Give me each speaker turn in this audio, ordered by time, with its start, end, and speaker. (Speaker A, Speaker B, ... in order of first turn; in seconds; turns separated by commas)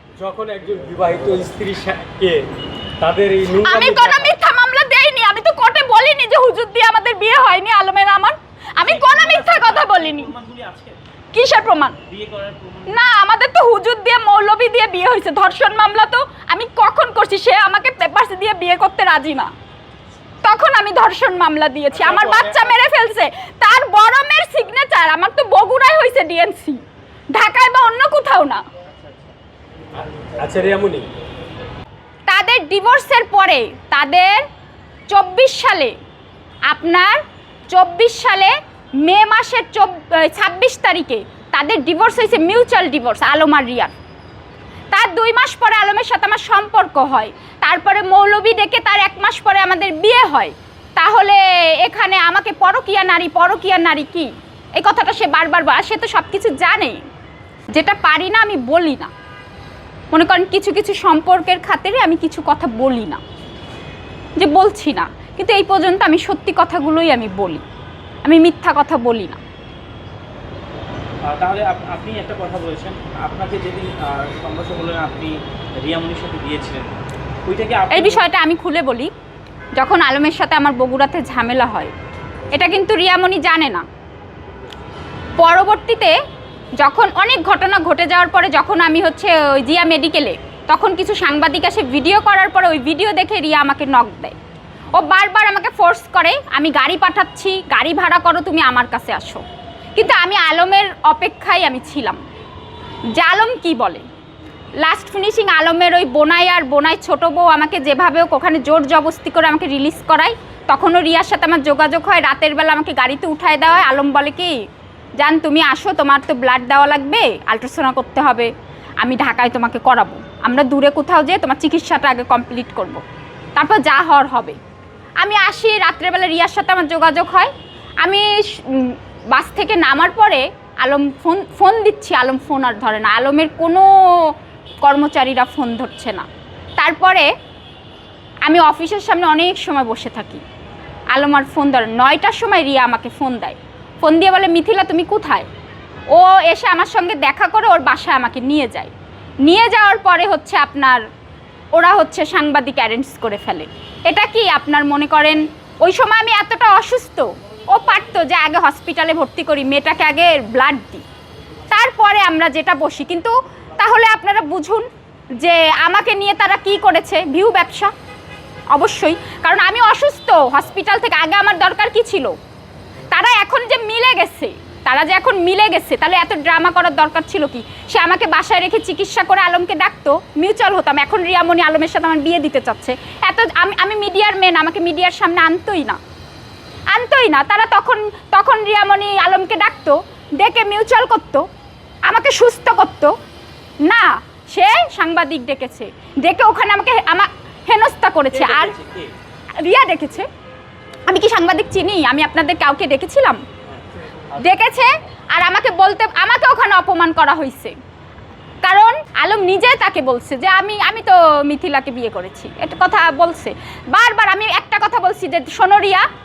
Speaker A: 0.2-4.2, Speaker B: 3.6-10.3, Speaker C: 8.8-11.0, Speaker B: 11.3-12.0, Speaker C: 12.0-13.0, Speaker B: 12.9-19.5, Speaker B: 20.4-26.8, Speaker C: 21.9-22.7, Speaker B: 27.3-28.6, Speaker A: 30.2-31.1, Speaker B: 32.3-34.4, Speaker B: 35.1-35.9, Speaker B: 36.7-43.9, Speaker B: 44.9-57.0, Speaker B: 57.7-59.1, Speaker B: 60.1-63.2, Speaker B: 64.4-67.6, Speaker B: 68.2-69.4, Speaker C: 71.2-76.9, Speaker C: 77.5-78.2, Speaker B: 77.9-79.1, Speaker B: 79.8-81.9, Speaker B: 82.5-83.8, Speaker B: 85.4-86.2, Speaker B: 86.8-94.3, Speaker B: 94.9-99.4, Speaker B: 100.0-102.2, Speaker B: 103.1-104.0, Speaker B: 104.8-114.6, Speaker B: 115.2-123.0, Speaker B: 123.5-124.6, Speaker B: 125.2-127.5, Speaker B: 128.0-137.3, Speaker B: 138.4-140.4, Speaker B: 141.1-145.5, Speaker B: 146.1-148.9, Speaker B: 149.4-151.0, Speaker B: 151.7-161.0, Speaker B: 161.7-167.9, Speaker B: 168.7-172.3, Speaker B: 173.1-186.0, Speaker B: 186.9-191.5, Speaker B: 192.1-193.2, Speaker B: 193.8-198.7, Speaker C: 198.3-199.1, Speaker B: 199.6-200.3, Speaker B: 201.1-203.4, Speaker B: 204.4-207.7, Speaker B: 208.6-216.1